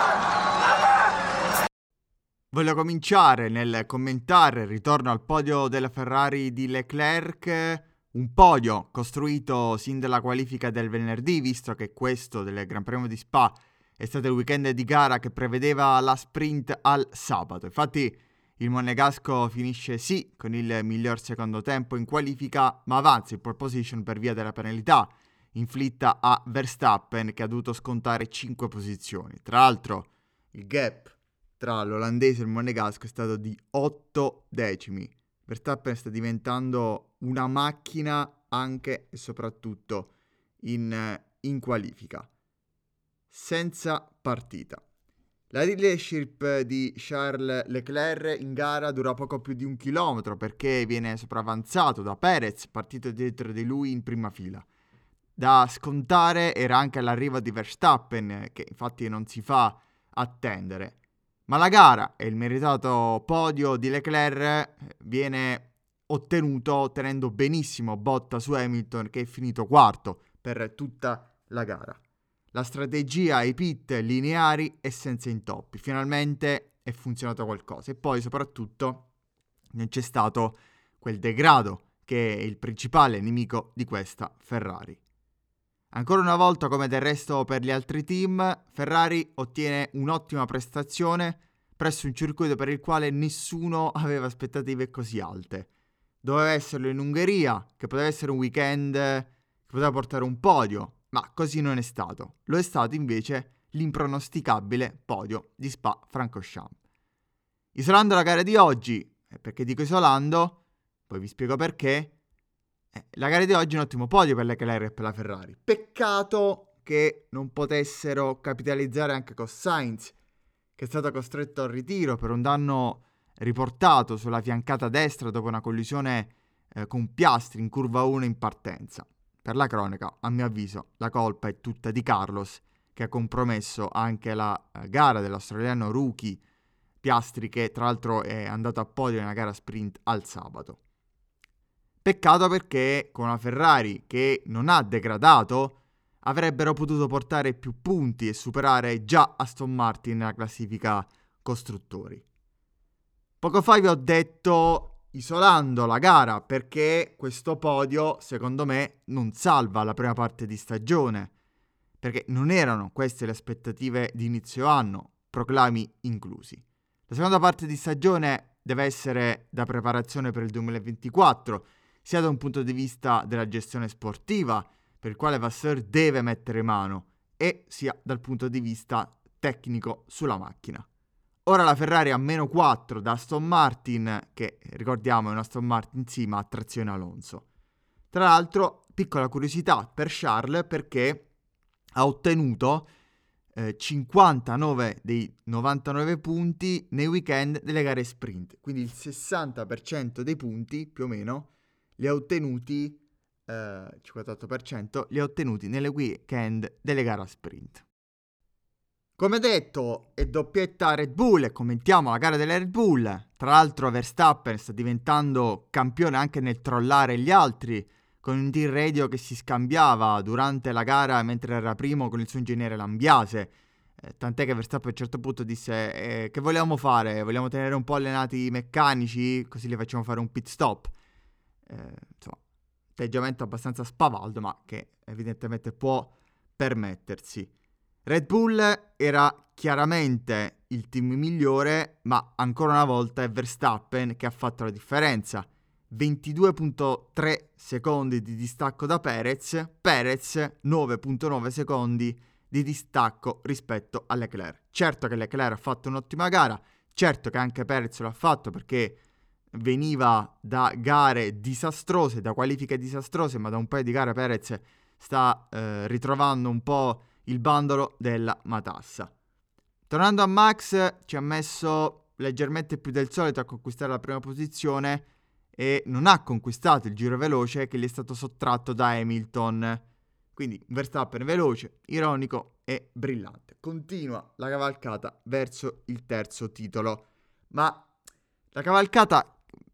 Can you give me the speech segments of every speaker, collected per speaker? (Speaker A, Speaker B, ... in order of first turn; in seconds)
Speaker A: 2.5-40.1, 40.6-42.3, 43.3-44.8, 45.5-54.7, 55.4-72.0, 72.5-79.1, 79.7-85.0, 85.9-95.7, 96.2-106.8, 107.8-112.1, 112.9-120.1, 120.8-136.4, 137.0-140.8, 142.0-152.2, 153.4-161.3, 162.0-180.8, 181.4-187.4, 188.1-191.3, 191.9-192.9, 193.5-207.8, 209.2-230.9, 231.7-232.4, 232.9-237.5, 238.1-259.0, 259.5-269.1, 269.9-279.8, 280.3-287.9, 288.5-289.4